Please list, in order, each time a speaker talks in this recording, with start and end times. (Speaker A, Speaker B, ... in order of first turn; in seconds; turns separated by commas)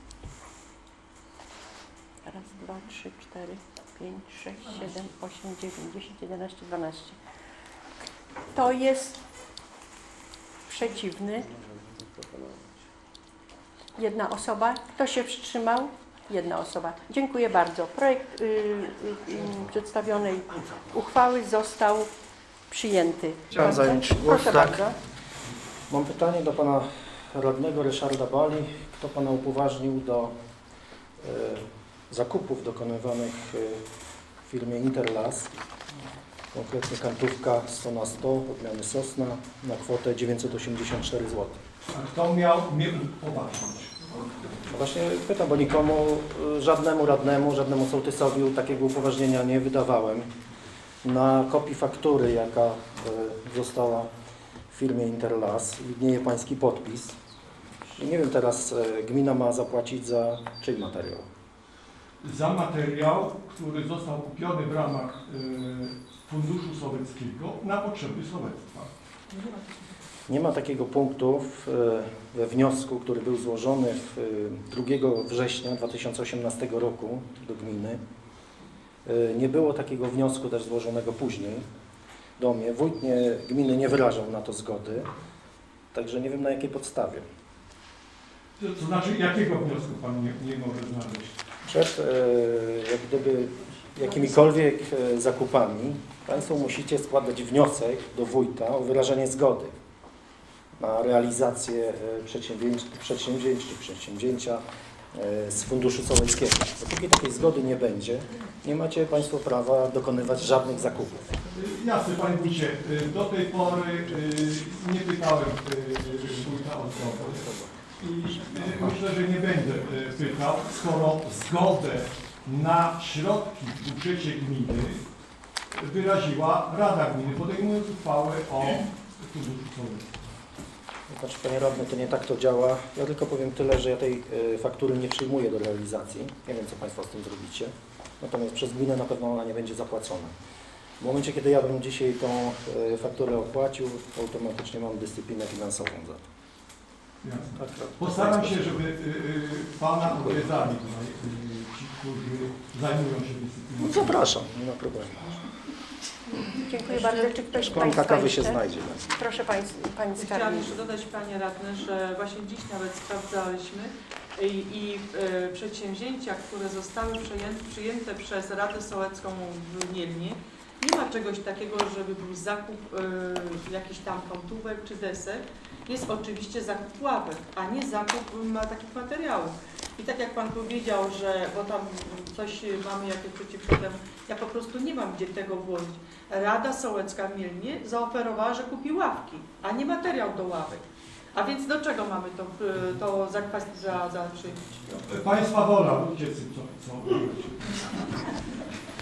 Speaker A: 2.3-7.2, Speaker A: 8.5-9.2, Speaker A: 10.7-11.5, Speaker A: 14.0-22.1, Speaker A: 22.7-24.9, Speaker B: 23.5-24.9, Speaker B: 25.9-30.3, Speaker B: 31.2-33.8, Speaker B: 34.5-35.5, Speaker B: 36.5-41.6, Speaker C: 41.9-44.1, Speaker B: 44.7-50.3, Speaker B: 51.0-54.1, Speaker B: 54.7-57.2, Speaker B: 58.0-61.3, Speaker C: 62.2-68.9, Speaker D: 69.3-69.8, Speaker B: 70.3-78.0, Speaker B: 79.1-81.7, Speaker B: 82.4-85.1, Speaker B: 85.9-87.2, Speaker C: 88.6-91.4, Speaker B: 91.7-99.8, Speaker B: 100.8-104.6, Speaker B: 105.1-111.3, Speaker C: 111.5-117.5, Speaker C: 118.0-125.0, Speaker C: 125.7-130.1, Speaker B: 131.1-140.3, Speaker B: 141.0-146.2, Speaker C: 147.2-154.2, Speaker B: 147.5-148.8, Speaker B: 150.1-150.6, Speaker B: 153.8-155.4, Speaker D: 156.3-157.7, Speaker A: 156.6-158.6, Speaker B: 157.7-159.1, Speaker A: 159.1-160.8, Speaker D: 160.2-194.7, Speaker C: 194.9-198.1